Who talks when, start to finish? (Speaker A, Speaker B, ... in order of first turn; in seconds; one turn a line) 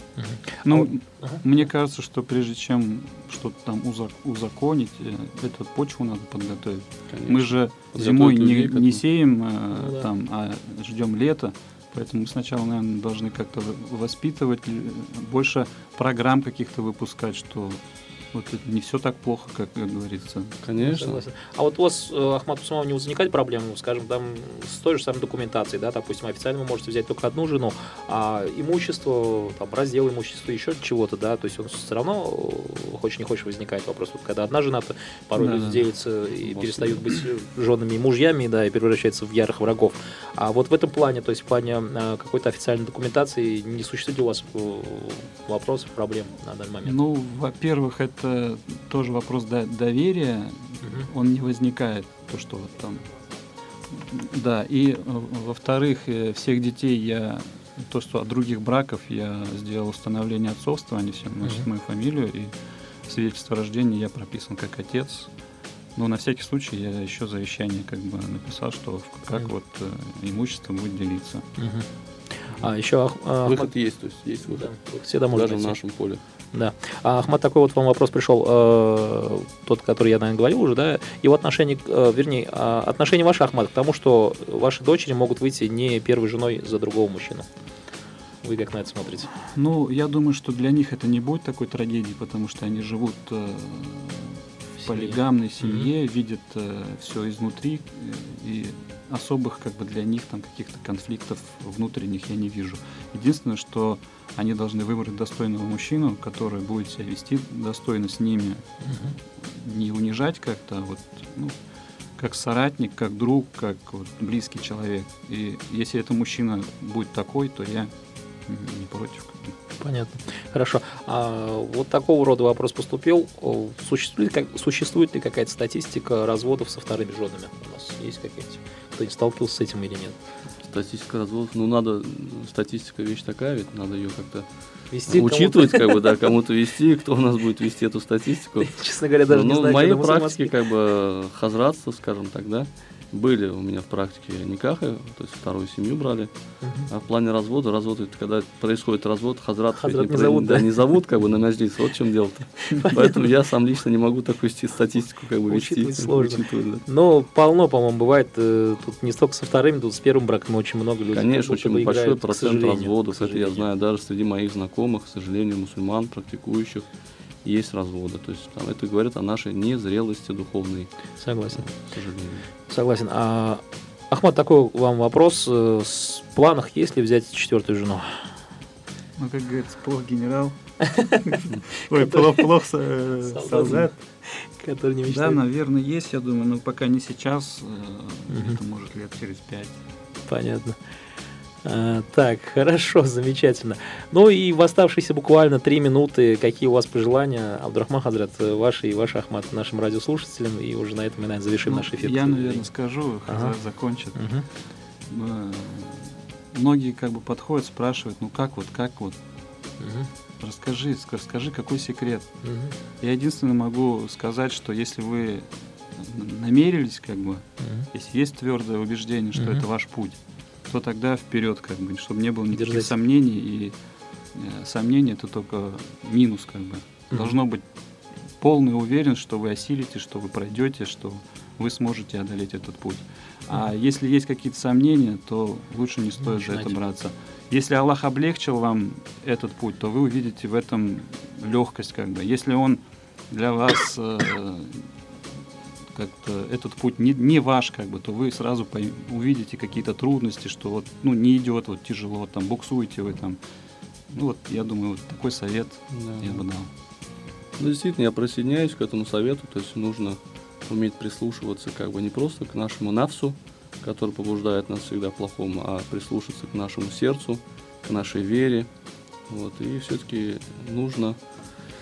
Speaker A: 0.2-1.4
Speaker B: 0.6-17.8
Speaker C: 7.1-9.0
Speaker A: 9.7-10.1
Speaker B: 18.3-20.8
Speaker C: 20.6-21.2
Speaker A: 20.8-47.0
Speaker B: 35.4-35.8
Speaker B: 36.4-37.2
Speaker B: 46.8-53.1
Speaker A: 50.8-51.1
Speaker B: 53.9-62.5
Speaker B: 63.1-65.3
Speaker B: 66.0-71.5
Speaker A: 71.6-71.9
Speaker A: 72.5-73.7
Speaker C: 73.4-74.7
Speaker A: 74.5-75.8
Speaker C: 75.3-76.2
Speaker A: 76.5-87.5
Speaker A: 88.4-89.3
Speaker B: 89.3-111.6
Speaker A: 94.8-95.9
Speaker A: 108.8-109.1
Speaker B: 112.2-117.9
Speaker B: 118.5-119.5
Speaker A: 119.8-130.2
Speaker C: 130.6-134.5
Speaker A: 134.9-136.0
Speaker C: 135.1-146.3
Speaker A: 138.6-140.5
Speaker A: 146.6-146.9
Speaker C: 146.9-156.8
Speaker A: 149.8-150.7
Speaker A: 152.7-153.2
Speaker A: 155.5-163.7
Speaker C: 161.1-166.9
Speaker C: 167.4-170.9
Speaker A: 171.2-171.7
Speaker C: 171.5-172.5
Speaker A: 172.7-178.1
Speaker B: 179.2-180.6
Speaker A: 180.8-182.5
Speaker B: 181.2-183.9
Speaker A: 183.2-185.4
Speaker B: 185.1-189.8
Speaker A: 188.3-188.6
Speaker A: 190.3-190.8
Speaker A: 191.6-202.7
Speaker B: 201.6-204.2
Speaker A: 203.3-203.5
Speaker A: 204.1-204.4
Speaker B: 205.1-209.2
Speaker A: 209.8-210.1
Speaker B: 210.4-212.3
Speaker A: 212.4-212.7
Speaker B: 213.0-223.7
Speaker A: 217.6-217.9
Speaker A: 219.3-219.6
Speaker A: 222.5-222.9
Speaker B: 224.3-227.6
Speaker B: 228.4-244.9
Speaker A: 236.2-236.8
Speaker B: 245.9-253.4
Speaker B: 254.1-256.7
Speaker C: 255.9-256.4
Speaker C: 257.6-268.7
Speaker C: 269.3-271.2